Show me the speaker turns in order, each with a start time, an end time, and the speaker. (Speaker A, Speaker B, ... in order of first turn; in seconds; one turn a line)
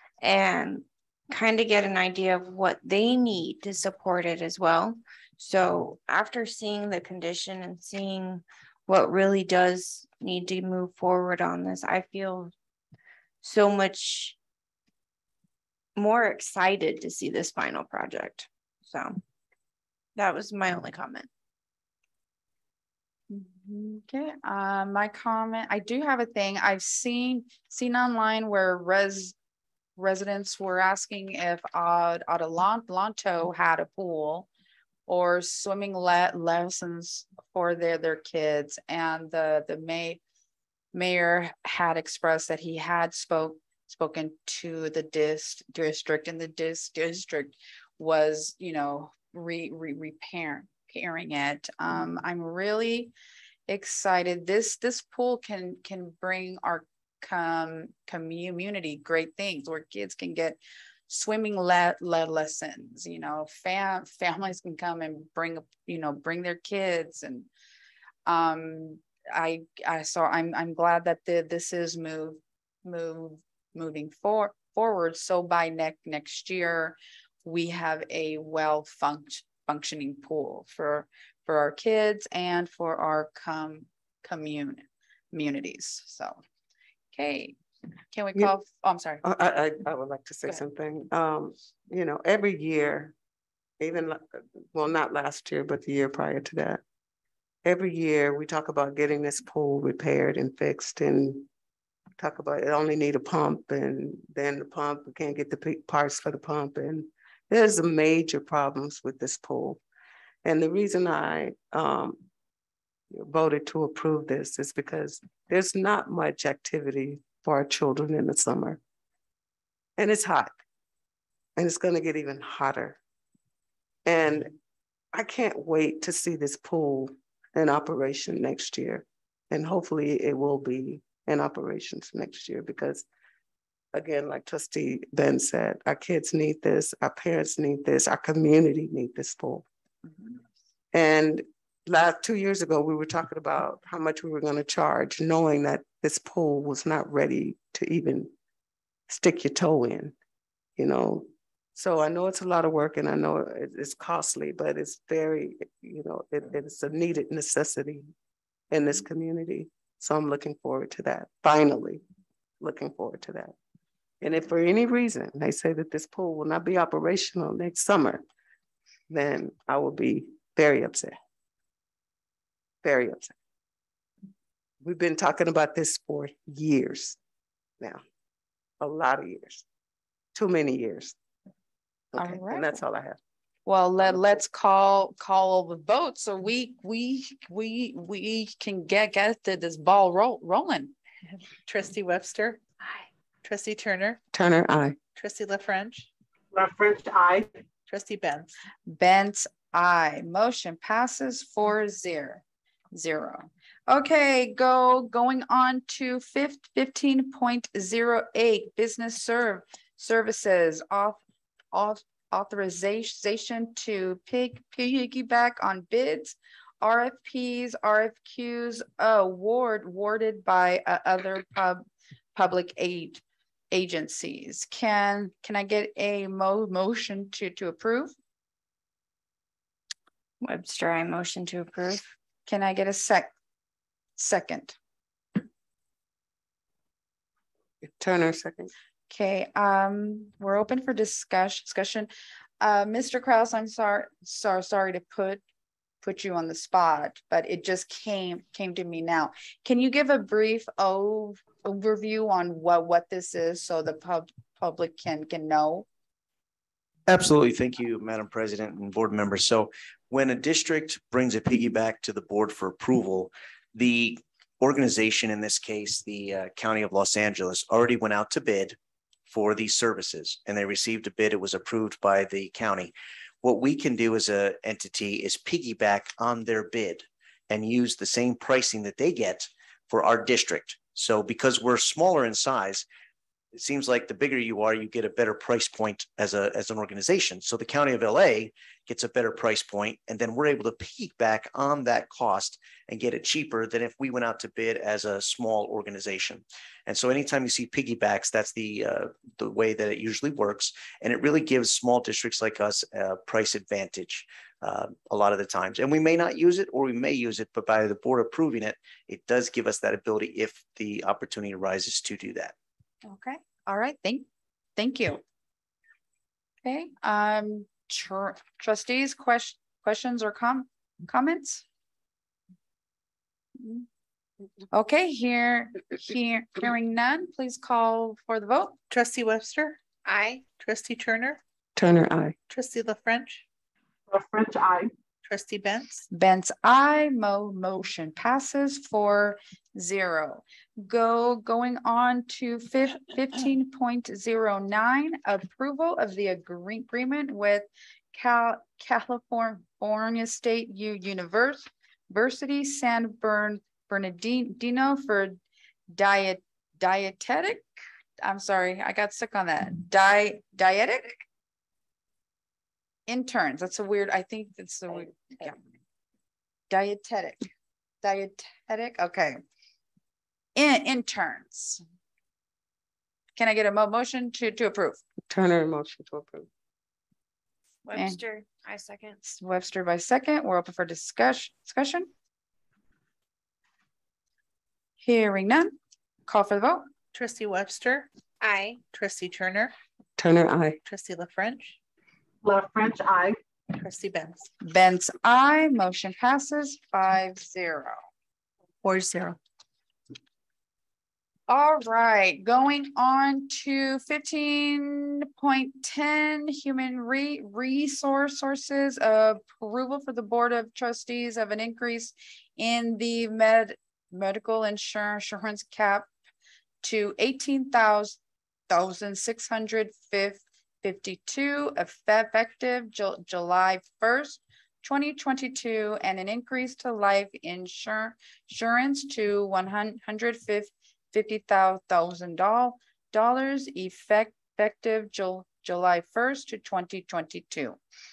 Speaker A: 0.2-12.5
Speaker A: 13.4-14.3
Speaker A: 15.9-19.2
Speaker A: 20.1-21.3
Speaker B: 23.3-29.3
Speaker B: 30.0-34.5
Speaker B: 35.1-40.2
Speaker B: 40.9-53.1
Speaker B: 53.7-67.5
Speaker B: 68.2-86.4
Speaker B: 87.1-87.5
Speaker B: 88.1-89.2
Speaker C: 89.2-93.1
Speaker C: 93.8-96.8
Speaker C: 97.6-101.5
Speaker C: 102.2-109.8
Speaker C: 110.4-112.2
Speaker C: 113.1-118.8
Speaker C: 120.0-120.6
Speaker C: 121.5-123.0
Speaker C: 124.0-124.5
Speaker C: 125.1-133.0
Speaker C: 133.9-139.6
Speaker C: 140.9-148.3
Speaker C: 149.1-150.1
Speaker C: 150.8-158.1
Speaker C: 158.7-162.0
Speaker C: 162.6-163.5
Speaker C: 164.2-168.2
Speaker C: 169.1-171.2
Speaker C: 172.8-173.3
Speaker C: 174.8-177.2
Speaker C: 178.8-179.6
Speaker C: 180.3-181.1
Speaker C: 182.1-183.2
Speaker B: 182.2-182.8
Speaker B: 183.7-190.9
Speaker D: 191.7-192.6
Speaker D: 193.4-194.2
Speaker C: 194.3-195.0
Speaker D: 195.2-196.1
Speaker E: 196.5-197.5
Speaker D: 197.9-198.5
Speaker B: 198.9-202.4
Speaker B: 202.9-221.8
Speaker B: 222.3-228.1
Speaker A: 230.4-232.0
Speaker B: 232.5-233.3
Speaker B: 234.2-234.8
Speaker C: 237.8-238.7
Speaker B: 239.1-245.4
Speaker B: 246.0-255.8
Speaker F: 257.1-282.9
Speaker F: 283.5-312.5
Speaker B: 313.0-315.2
Speaker B: 316.6-321.6
Speaker B: 323.6-323.9
Speaker B: 324.7-328.8
Speaker D: 328.9-329.8
Speaker A: 330.0-330.5
Speaker D: 330.5-331.4
Speaker C: 331.8-332.4
Speaker D: 332.5-333.4
Speaker E: 334.1-334.9
Speaker D: 335.2-336.1
Speaker B: 336.1-357.6
Speaker B: 358.2-361.2
Speaker B: 363.1-365.6
Speaker B: 366.7-367.5
Speaker B: 368.0-369.4
Speaker B: 370.6-371.8
Speaker B: 373.4-375.0
Speaker C: 375.3-376.5
Speaker A: 377.8-379.3
Speaker B: 377.9-378.2
Speaker B: 379.4-382.1
Speaker B: 385.0-385.7
Speaker B: 386.3-386.9
Speaker D: 387.1-388.1
Speaker A: 388.4-388.8
Speaker D: 388.9-389.7
Speaker C: 390.2-390.8
Speaker D: 390.8-391.8
Speaker E: 392.4-393.4
Speaker D: 393.8-394.5
Speaker B: 394.6-398.0
Speaker D: 398.8-399.4
Speaker B: 401.5-416.1
Speaker B: 416.8-418.2
Speaker B: 418.7-437.8